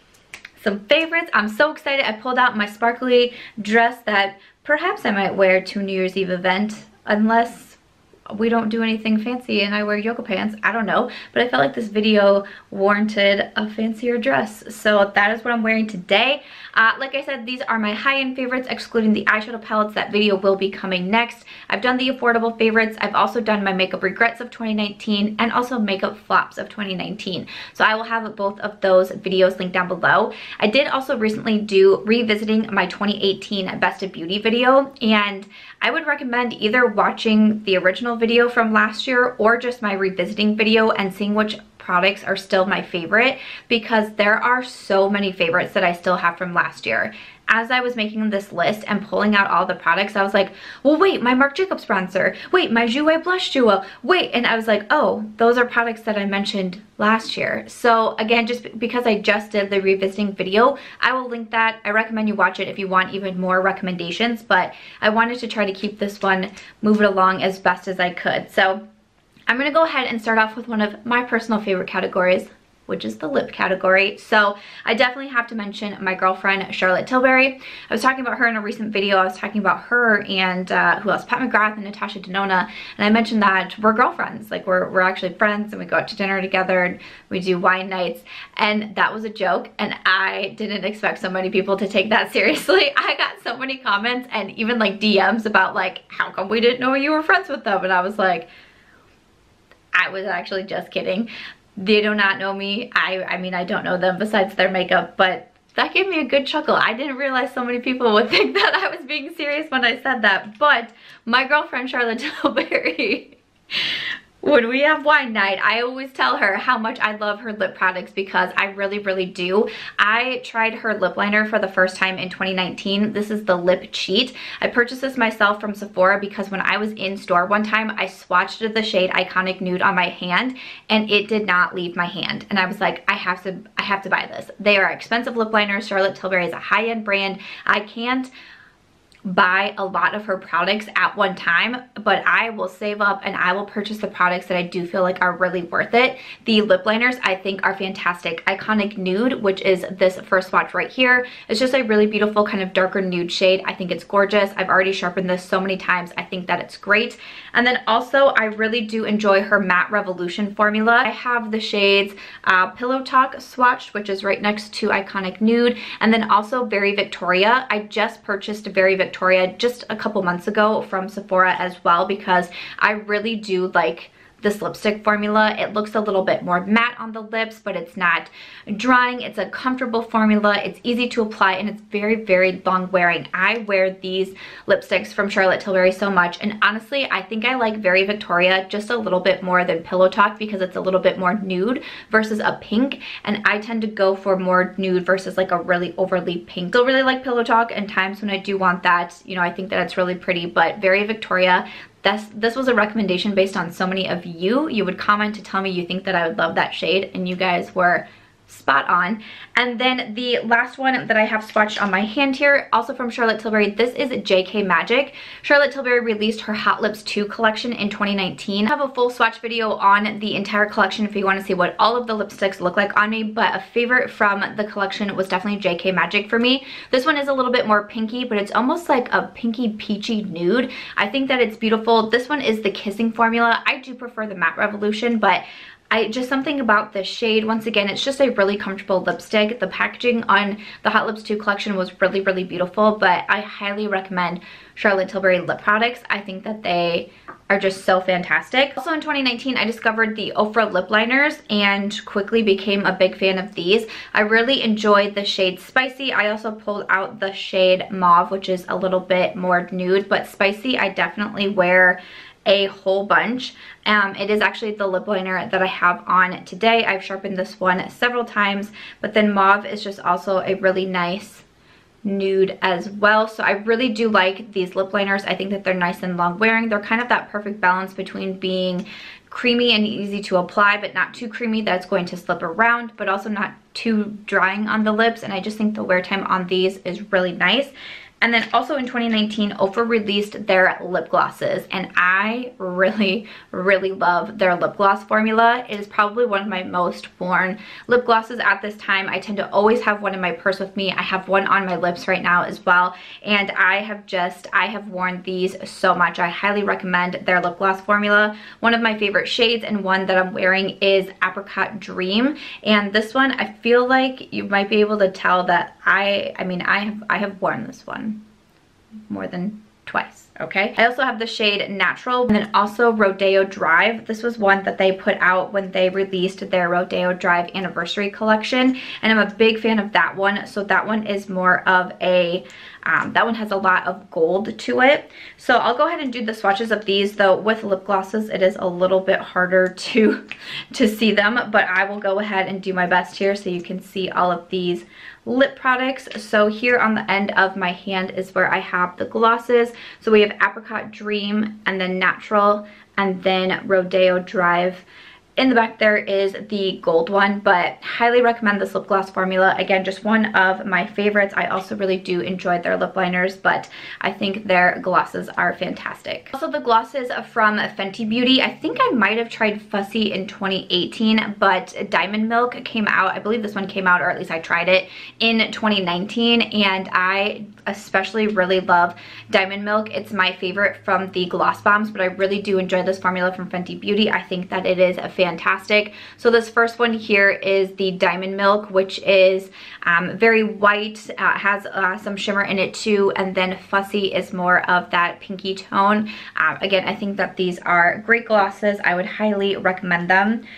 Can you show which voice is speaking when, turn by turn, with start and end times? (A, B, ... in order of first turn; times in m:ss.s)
0:00.6-0:07.8 A
0:08.3-1:08.8 A
1:09.5-1:38.5 A
1:39.9-2:18.3 A
2:19.2-4:31.4 A
4:32.0-5:18.2 A
5:19.1-5:54.8 A
5:55.4-6:40.4 A